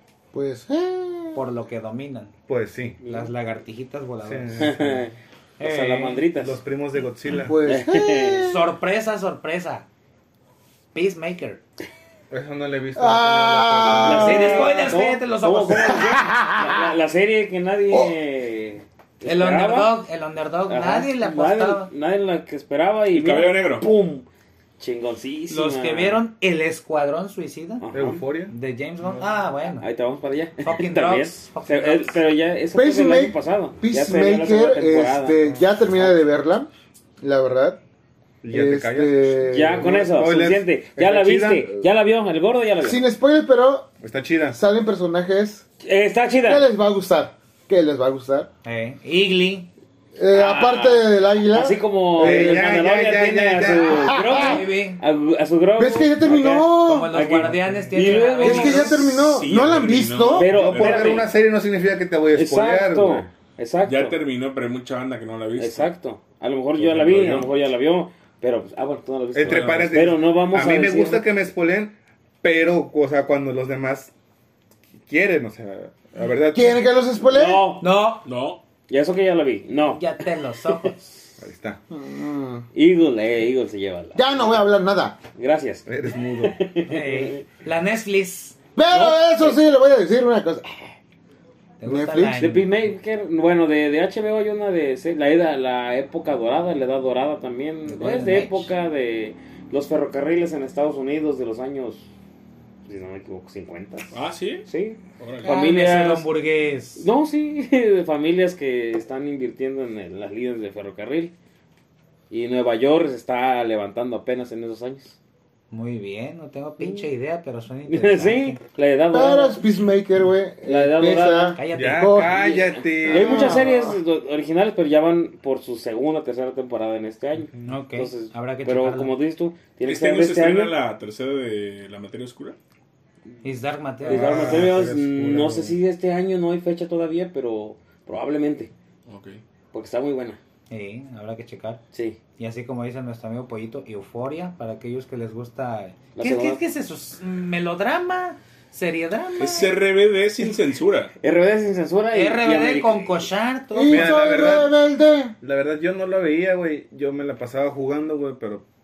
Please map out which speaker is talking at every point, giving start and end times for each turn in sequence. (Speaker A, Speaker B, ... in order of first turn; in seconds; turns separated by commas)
Speaker A: 0.3-1.4, Speaker B: 1.3-2.3, Speaker C: 2.5-3.0, Speaker D: 3.0-3.3, Speaker B: 3.0-4.8, Speaker C: 4.2-5.0, Speaker D: 4.6-6.6, Speaker B: 5.6-6.3, Speaker C: 6.3-7.6, Speaker A: 7.4-8.7, Speaker D: 7.6-8.5, Speaker B: 8.4-9.9, Speaker B: 10.9-11.6, Speaker C: 12.3-14.7, Speaker A: 12.9-14.9, Speaker D: 14.0-19.9, Speaker B: 14.1-16.2, Speaker A: 16.0-16.9, Speaker A: 17.9-18.1, Speaker B: 19.2-21.9, Speaker D: 20.7-24.3, Speaker E: 23.1-23.9, Speaker D: 24.8-26.2, Speaker B: 25.5-27.8, Speaker D: 27.8-28.2, Speaker C: 27.9-28.5, Speaker B: 28.5-29.9, Speaker D: 29.7-36.1, Speaker B: 30.6-32.2, Speaker A: 32.7-36.7, Speaker A: 37.2-37.8, Speaker C: 38.4-41.9, Speaker A: 38.5-40.0, Speaker D: 39.4-43.0, Speaker A: 42.8-43.9, Speaker C: 44.0-44.6, Speaker A: 44.5-45.6, Speaker D: 45.8-46.6, Speaker A: 46.4-48.5, Speaker B: 48.6-49.7, Speaker A: 50.1-52.6, Speaker D: 50.3-59.1, Speaker C: 52.1-54.2, Speaker A: 53.8-54.6, Speaker B: 54.4-55.0, Speaker A: 55.8-57.2, Speaker B: 56.6-59.0, Speaker A: 58.4-60.5, Speaker E: 59.0-61.3, Speaker D: 60.3-61.3, Speaker C: 60.4-63.3, Speaker D: 62.3-64.2, Speaker E: 63.8-65.9, Speaker D: 65.5-71.3, Speaker E: 66.8-67.5, Speaker C: 69.3-74.1, Speaker E: 69.4-70.0, Speaker C: 75.0-76.8, Speaker A: 76.5-77.7, Speaker D: 77.3-77.9, Speaker B: 77.8-78.3, Speaker E: 78.2-78.6, Speaker D: 78.9-80.0, Speaker B: 79.9-81.2, Speaker C: 81.4-81.8, Speaker A: 81.9-82.7, Speaker D: 82.7-84.6, Speaker A: 84.1-85.2, Speaker D: 85.3-87.4, Speaker C: 85.9-86.6, Speaker B: 86.9-89.1, Speaker A: 88.8-90.9, Speaker D: 88.9-89.6, Speaker B: 91.8-92.7, Speaker A: 91.8-92.4, Speaker D: 92.3-102.0, Speaker B: 97.9-98.7, Speaker D: 102.8-104.1, Speaker E: 104.1-105.5, Speaker D: 104.7-106.3, Speaker B: 105.4-107.1, Speaker D: 107.0-111.3, Speaker D: 112.3-115.2, Speaker B: 115.7-118.6, Speaker D: 116.8-117.0, Speaker D: 117.9-119.6, Speaker A: 119.1-122.4, Speaker D: 120.6-121.6, Speaker B: 121.6-122.3, Speaker C: 121.7-124.0, Speaker D: 122.2-130.7, Speaker A: 123.1-123.9, Speaker B: 127.6-129.1, Speaker E: 129.8-132.6, Speaker B: 133.4-134.7, Speaker C: 134.1-135.8, Speaker D: 134.1-138.7, Speaker E: 139.1-139.4, Speaker D: 139.7-140.4, Speaker B: 140.7-141.8, Speaker D: 141.9-142.2, Speaker B: 142.4-149.8, Speaker D: 146.1-146.6, Speaker E: 149.4-151.1, Speaker D: 151.2-153.1, Speaker B: 152.1-154.3, Speaker A: 153.7-155.3, Speaker C: 153.9-154.7, Speaker C: 155.4-158.6